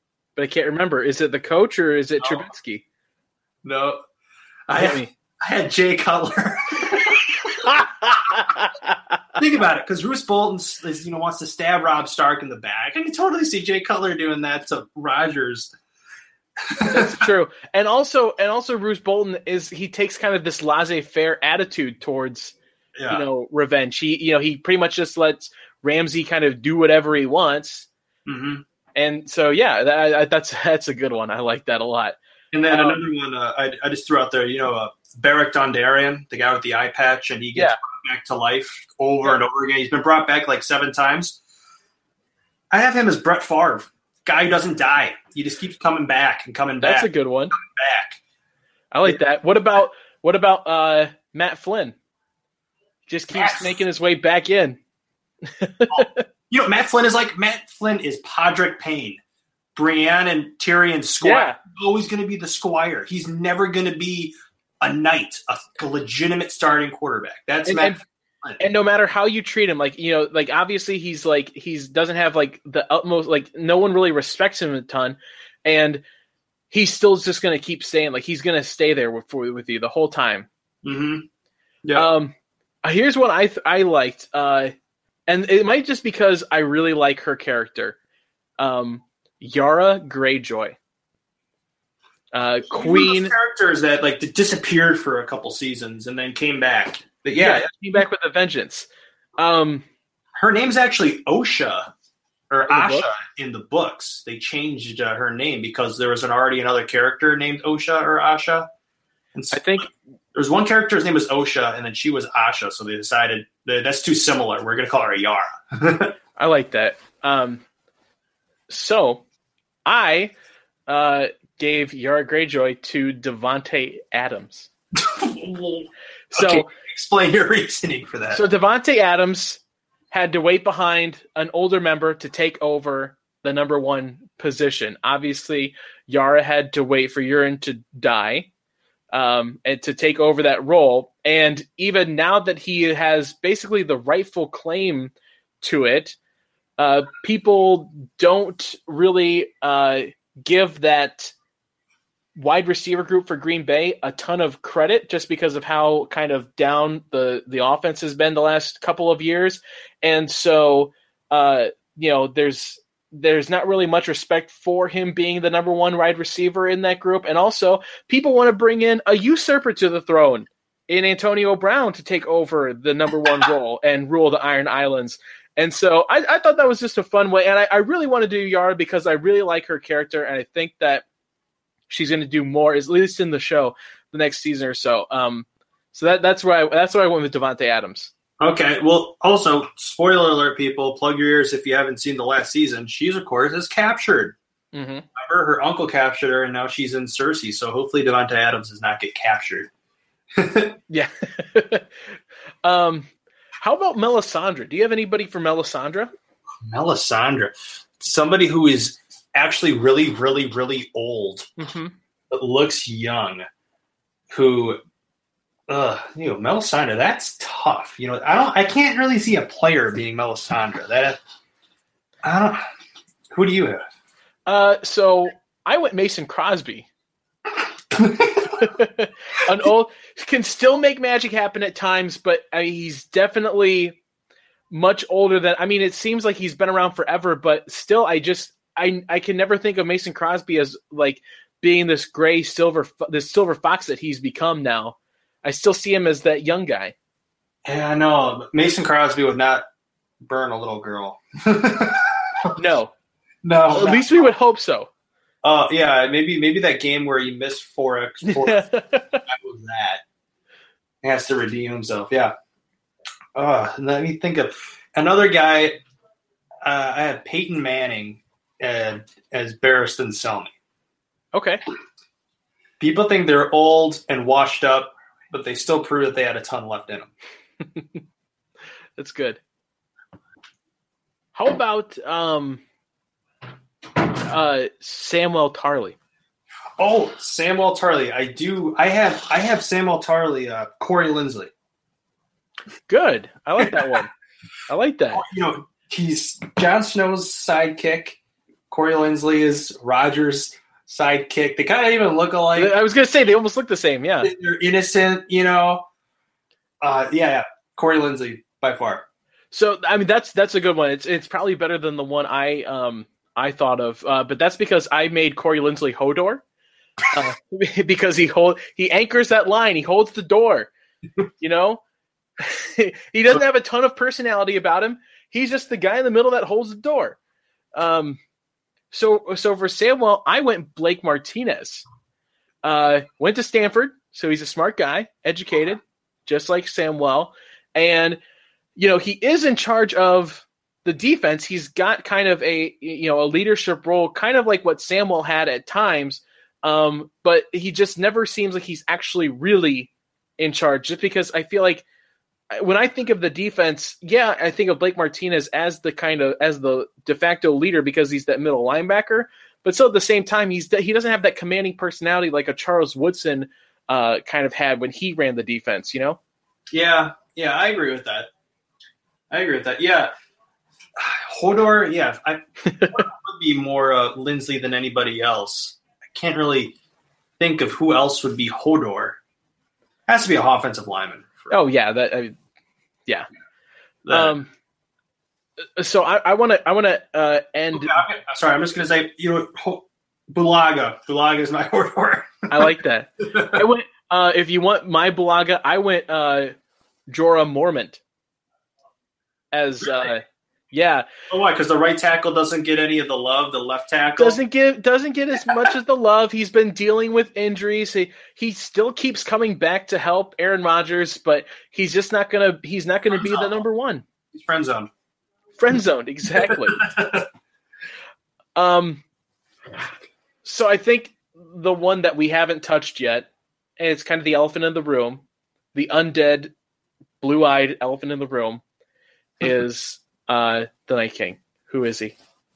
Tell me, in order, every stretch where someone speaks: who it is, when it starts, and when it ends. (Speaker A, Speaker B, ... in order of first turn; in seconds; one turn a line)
Speaker A: 0.3-2.8
Speaker B: 2.2-2.5
Speaker B: 3.6-4.0
Speaker B: 4.7-7.7
Speaker A: 4.7-5.1
Speaker A: 7.6-9.0
Speaker B: 9.4-15.8
Speaker B: 16.6-17.2
Speaker A: 16.8-22.6
Speaker B: 22.9-23.2
Speaker A: 23.1-27.9
Speaker B: 28.2-28.6
Speaker A: 28.9-32.2
Speaker B: 32.5-41.4
Speaker A: 32.7-33.0
Speaker B: 42.7-48.2
Speaker A: 46.8-47.5
Speaker A: 48.9-51.9
Speaker A: 53.1-54.8
Speaker B: 53.3-53.8
Speaker A: 55.4-56.2
Speaker B: 55.9-59.2
Speaker B: 59.7-68.6
Speaker A: 61.2-61.6
Speaker A: 67.6-68.0
Speaker A: 68.6-76.0
Speaker A: 76.7-80.5
Speaker B: 80.8-81.3
Speaker B: 81.8-82.1
Speaker A: 81.9-82.3
Speaker A: 82.8-84.7
Speaker A: 85.3-88.0
Speaker A: 88.6-90.8
Speaker A: 92.3-93.3
Speaker B: 92.7-97.7
Speaker A: 97.4-99.8
Speaker B: 100.4-101.9
Speaker B: 102.5-108.7
Speaker A: 102.7-103.1
Speaker B: 109.3-116.1
Speaker A: 109.5-109.9
Speaker A: 116.4-117.6
Speaker A: 118.7-119.2
Speaker A: 119.8-120.3
Speaker A: 120.9-124.7
Speaker B: 125.0-128.4
Speaker A: 126.3-126.7
Speaker A: 128.3-138.5
Speaker A: 139.1-146.2
Speaker A: 146.8-151.3
Speaker A: 152.3-181.0
Speaker A: 181.9-188.1
Speaker B: 188.4-194.3
Speaker A: 194.7-195.1
Speaker B: 195.1-199.7
Speaker B: 200.3-200.8
Speaker A: 200.9-206.1
Speaker B: 206.6-211.5
Speaker A: 211.6-211.9
Speaker B: 212.3-213.4
Speaker B: 214.3-214.8
Speaker B: 215.7-221.2
Speaker B: 222.2-222.6
Speaker B: 223.3-223.8
Speaker A: 224.5-226.9
Speaker B: 227.9-228.7
Speaker A: 228.6-234.0
Speaker A: 234.7-246.9
Speaker B: 247.7-249.6
Speaker B: 250.2-252.5
Speaker A: 252.5-252.9
Speaker B: 253.4-254.2
Speaker A: 253.7-254.9
Speaker B: 255.4-258.7
Speaker A: 258.2-259.2
Speaker B: 259.2-260.0
Speaker B: 261.0-262.3
Speaker B: 263.3-265.8
Speaker B: 266.6-270.5
Speaker A: 271.3-271.6
Speaker B: 272.8-277.1
Speaker A: 277.6-278.0
Speaker A: 279.0-279.4
Speaker A: 281.3-282.6
Speaker A: 284.2-286.0
Speaker B: 286.8-291.5
Speaker A: 292.9-294.1
Speaker B: 293.6-293.9
Speaker A: 294.7-295.2
Speaker B: 295.1-302.7
Speaker A: 302.5-304.3
Speaker B: 304.2-305.8
Speaker B: 306.8-309.0
Speaker A: 309.5-316.4
Speaker A: 317.1-320.7
Speaker A: 321.4-321.8
Speaker A: 322.4-327.2
Speaker A: 327.7-328.2
Speaker A: 328.9-331.8
Speaker A: 332.6-338.2
Speaker A: 338.8-351.8
Speaker A: 352.5-366.2
Speaker B: 366.7-368.3
Speaker B: 369.3-370.1
Speaker B: 370.9-376.7
Speaker A: 372.7-373.0
Speaker B: 377.4-379.2
Speaker B: 380.1-381.6
Speaker A: 381.5-382.4
Speaker B: 384.0-384.3
Speaker A: 384.1-384.5
Speaker A: 385.8-388.0
Speaker B: 387.7-392.7
Speaker A: 392.5-396.5
Speaker B: 393.3-393.6
Speaker A: 397.1-398.0
Speaker A: 399.5-401.1
Speaker B: 401.3-404.4
Speaker A: 404.2-414.0
Speaker B: 413.1-413.5
Speaker B: 414.3-414.9
Speaker A: 415.6-416.8
Speaker B: 416.4-417.2
Speaker A: 418.6-419.0
Speaker A: 420.4-425.2
Speaker A: 425.7-426.5
Speaker A: 427.2-428.6
Speaker A: 429.4-432.1